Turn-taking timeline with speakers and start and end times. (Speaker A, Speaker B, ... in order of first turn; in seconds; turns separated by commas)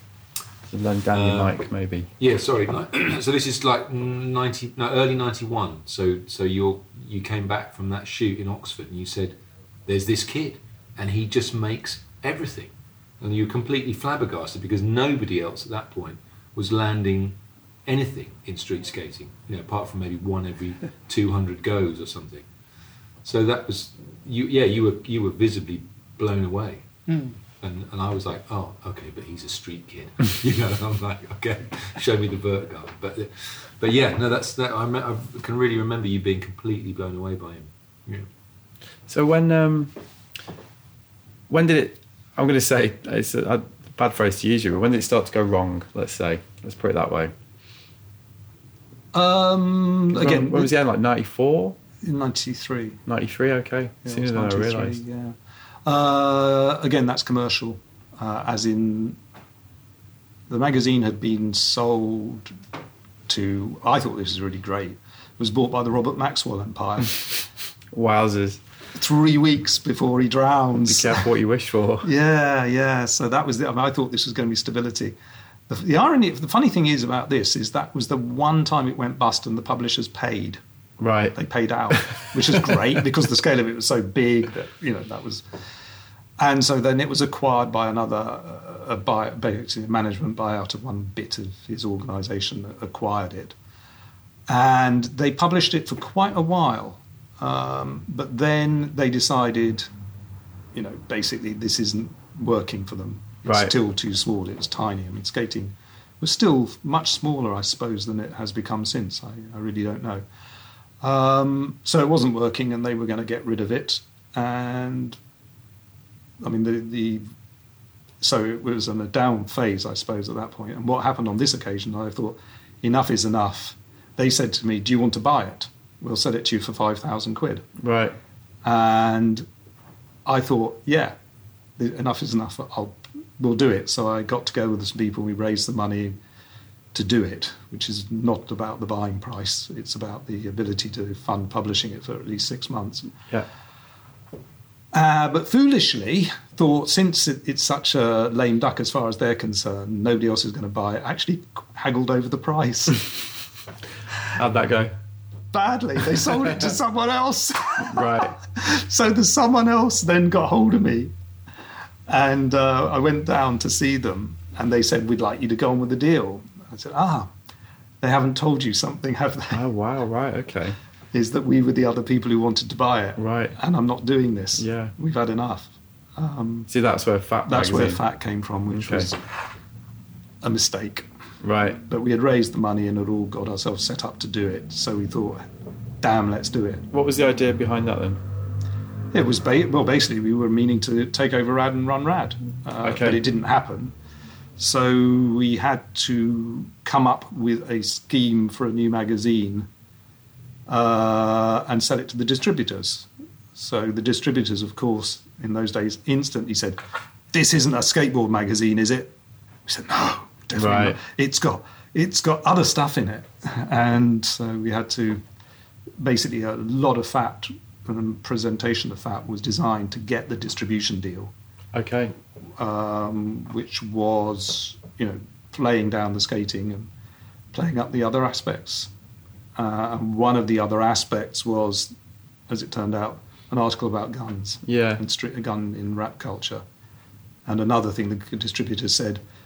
Speaker A: 0.7-2.1, Speaker B: 1.1-1.6, Speaker B: 2.2-22.5, Speaker B: 23.2-26.9, Speaker C: 27.1-27.3, Speaker B: 27.6-38.3, Speaker A: 39.1-39.9, Speaker A: 41.5-47.3, Speaker C: 49.1-50.7, Speaker A: 50.1-51.8, Speaker C: 52.0-53.0, Speaker A: 53.1-55.0, Speaker C: 54.0-59.2, Speaker C: 60.5-62.5, Speaker C: 63.3-67.5, Speaker A: 67.9-68.6, Speaker C: 69.0-71.3, Speaker A: 70.8-72.1, Speaker C: 72.0-75.2, Speaker C: 75.7-80.6, Speaker A: 81.0-81.4, Speaker C: 81.3-85.5, Speaker A: 81.9-82.7, Speaker C: 86.4-93.5, Speaker C: 94.5-99.9, Speaker C: 100.7-110.2, Speaker A: 103.5-103.7, Speaker C: 111.0-115.2, Speaker C: 116.4-117.2, Speaker C: 118.2-127.7, Speaker A: 127.8-128.2, Speaker C: 128.6-129.5, Speaker C: 130.3-131.2, Speaker C: 131.8-136.2, Speaker C: 136.9-143.1, Speaker C: 144.9-153.3, Speaker A: 154.3-154.9, Speaker C: 155.5-161.1, Speaker A: 157.8-158.4, Speaker C: 162.1-167.3, Speaker C: 168.0-169.6, Speaker A: 169.5-170.8, Speaker C: 171.1-176.7, Speaker A: 173.2-173.6, Speaker A: 174.6-174.9, Speaker A: 176.7-178.0, Speaker C: 177.5-179.3, Speaker A: 178.7-179.1, Speaker C: 180.4-181.1, Speaker A: 181.4-181.8, Speaker C: 181.8-185.5, Speaker C: 186.0-186.8, Speaker A: 186.9-188.2, Speaker C: 189.1-193.9, Speaker A: 192.8-193.2, Speaker C: 194.6-199.7, Speaker C: 200.7-206.8, Speaker C: 207.3-209.2, Speaker C: 209.7-215.2, Speaker A: 210.6-211.0, Speaker C: 216.0-221.3, Speaker A: 221.7-222.1, Speaker C: 222.6-226.9, Speaker C: 227.5-228.9, Speaker C: 229.6-231.9, Speaker C: 232.5-236.6, Speaker A: 234.7-235.0, Speaker C: 237.5-239.2